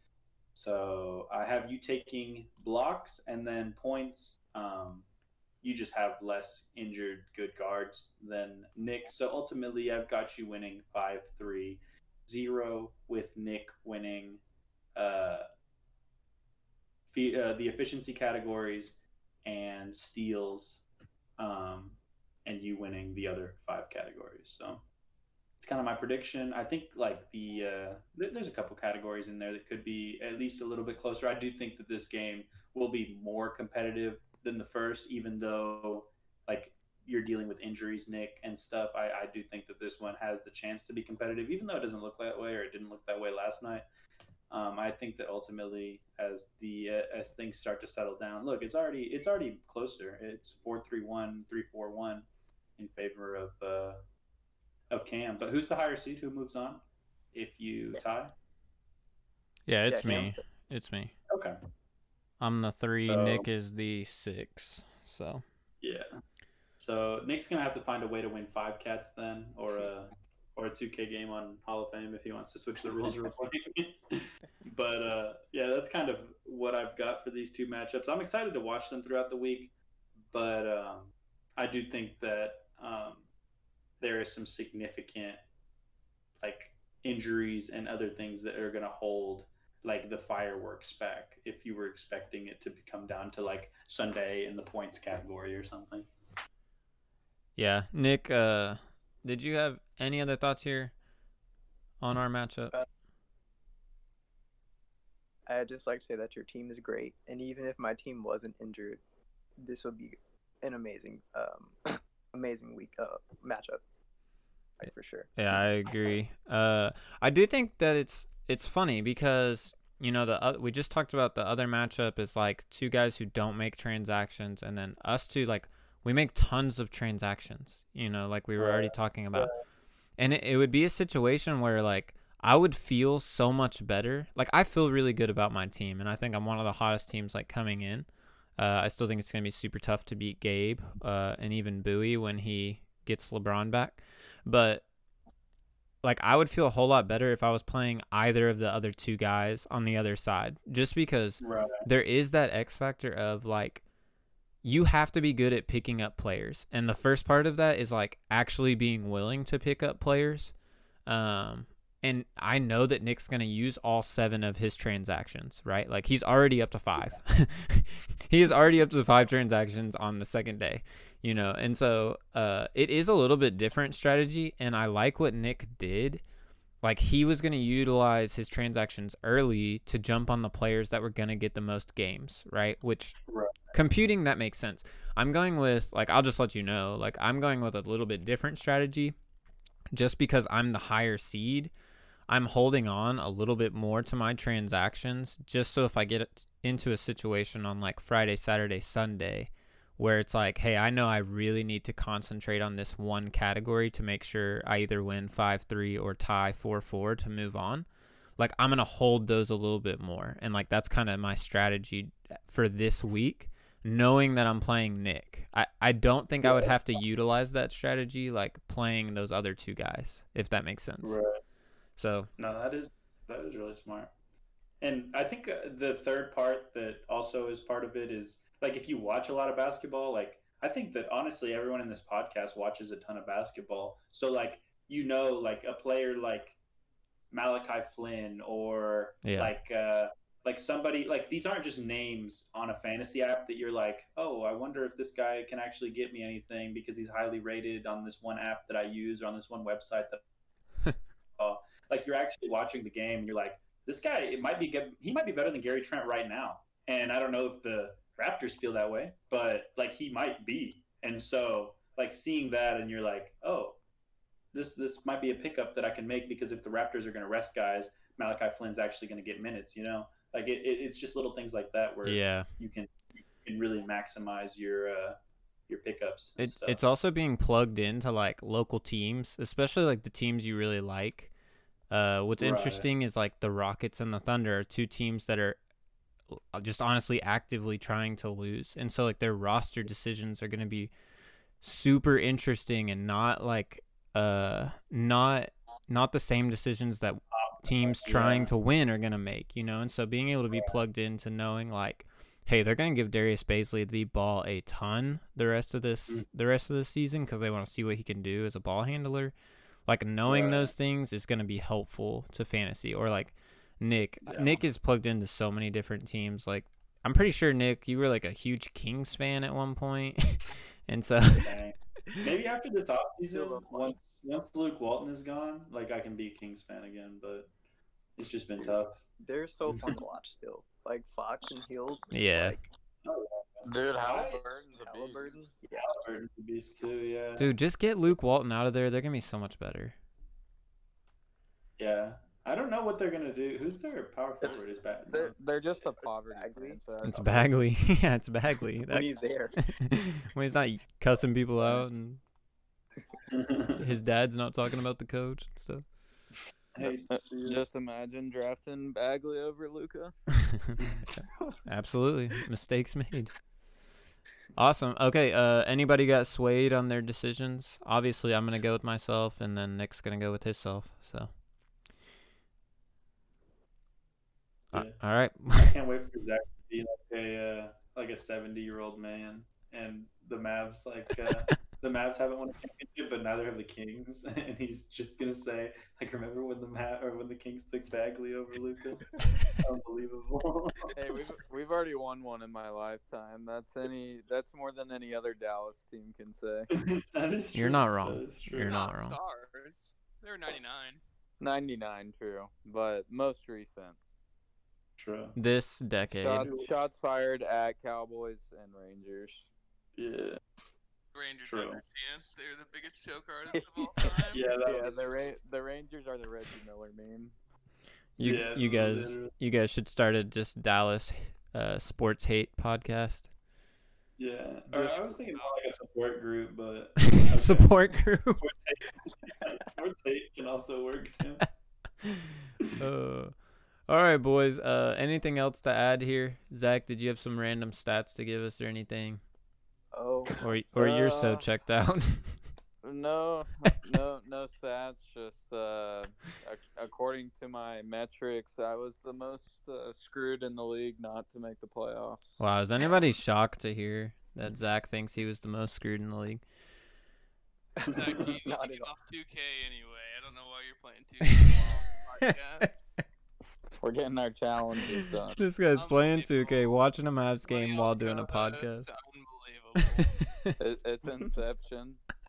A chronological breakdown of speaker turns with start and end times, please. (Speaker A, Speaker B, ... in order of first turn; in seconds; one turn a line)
Speaker A: 0.5-5.1
Speaker A: 5.6-14.4
Speaker A: 14.9-15.5
Speaker A: 17.1-20.8
Speaker A: 21.4-24.8
Speaker A: 25.6-43.9
Speaker A: 44.5-52.2
Speaker A: 52.8-54.0
Speaker A: 54.9-56.8
Speaker A: 57.3-58.3
Speaker B: 59.7-61.1
Speaker C: 59.9-60.4
Speaker A: 60.0-60.3
Speaker A: 61.3-61.6
Speaker B: 62.4-65.4
Speaker A: 63.0-63.5
Speaker A: 65.8-66.1
Speaker A: 66.8-79.7
Speaker A: 80.3-83.2
Speaker A: 84.0-85.4
Speaker A: 86.4-96.1
Speaker B: 97.5-100.9
Speaker B: 102.0-102.7
Speaker C: 105.5-109.0
Speaker C: 109.6-113.8
Speaker C: 114.8-115.3
Speaker B: 115.4-129.5
Speaker A: 128.6-129.6
Speaker B: 130.2-144.8
Speaker B: 146.0-153.8
Speaker A: 151.4-151.8
Speaker B: 154.6-160.5
Speaker B: 161.1-176.2
Speaker B: 176.8-183.2
Speaker A: 183.3-183.7
Speaker B: 183.7-189.2
Speaker B: 189.9-191.7
Speaker B: 192.3-221.2
Speaker A: 216.4-216.7
Speaker A: 221.0-221.4
Speaker B: 222.0-222.3
Speaker A: 222.4-224.1
Speaker A: 224.8-236.6
Speaker A: 237.3-250.2
Speaker B: 239.2-239.5
Speaker A: 251.4-263.8
Speaker A: 264.5-276.8
Speaker B: 272.0-272.5
Speaker B: 276.4-281.3
Speaker B: 281.9-285.6
Speaker A: 282.4-282.9
Speaker B: 286.3-290.9
Speaker B: 291.6-309.3
Speaker A: 297.3-298.5
Speaker A: 300.5-300.8
Speaker B: 309.9-321.6
Speaker A: 310.3-310.7
Speaker A: 314.3-314.6
Speaker A: 321.4-327.5
Speaker D: 323.3-323.6
Speaker A: 328.2-329.0
Speaker C: 329.2-332.7
Speaker B: 332.1-332.6
Speaker A: 333.0-334.4
Speaker D: 333.6-335.5
Speaker C: 334.8-335.9
Speaker A: 335.7-337.5
Speaker B: 337.4-339.9
Speaker A: 341.8-345.3
Speaker D: 344.4-347.5
Speaker C: 345.9-346.8
Speaker B: 347.0-352.2
Speaker C: 348.9-349.6
Speaker A: 353.3-353.9
Speaker B: 353.8-355.9
Speaker A: 356.8-357.6
Speaker D: 356.8-360.2
Speaker B: 360.4-363.3
Speaker B: 364.6-371.3
Speaker B: 374.7-375.7
Speaker A: 374.7-390.9
Speaker D: 390.9-396.7
Speaker A: 396.7-398.7
Speaker B: 397.5-399.2
Speaker E: 398.6-401.0
Speaker D: 401.4-404.0
Speaker A: 405.0-405.4
Speaker B: 405.4-406.5
Speaker D: 406.2-409.5
Speaker A: 406.4-406.7
Speaker A: 409.9-410.4
Speaker E: 411.1-414.6
Speaker A: 411.4-411.8
Speaker C: 413.6-414.1
Speaker A: 414.3-415.1
Speaker D: 414.6-417.4
Speaker B: 418.2-423.3
Speaker A: 418.2-419.3
Speaker A: 424.2-427.8
Speaker D: 424.7-425.1
Speaker B: 427.1-428.5
Speaker A: 428.4-431.5
Speaker B: 432.0-439.2
Speaker C: 439.9-440.4
Speaker B: 440.4-442.4
Speaker D: 440.8-441.4
Speaker D: 442.8-452.4
Speaker B: 452.4-456.4
Speaker C: 457.8-458.9
Speaker E: 457.9-462.8
Speaker A: 457.9-458.4
Speaker D: 463.8-465.5
Speaker B: 465.4-468.9
Speaker E: 465.7-466.8
Speaker E: 467.4-470.2
Speaker B: 470.2-470.6
Speaker D: 470.6-472.0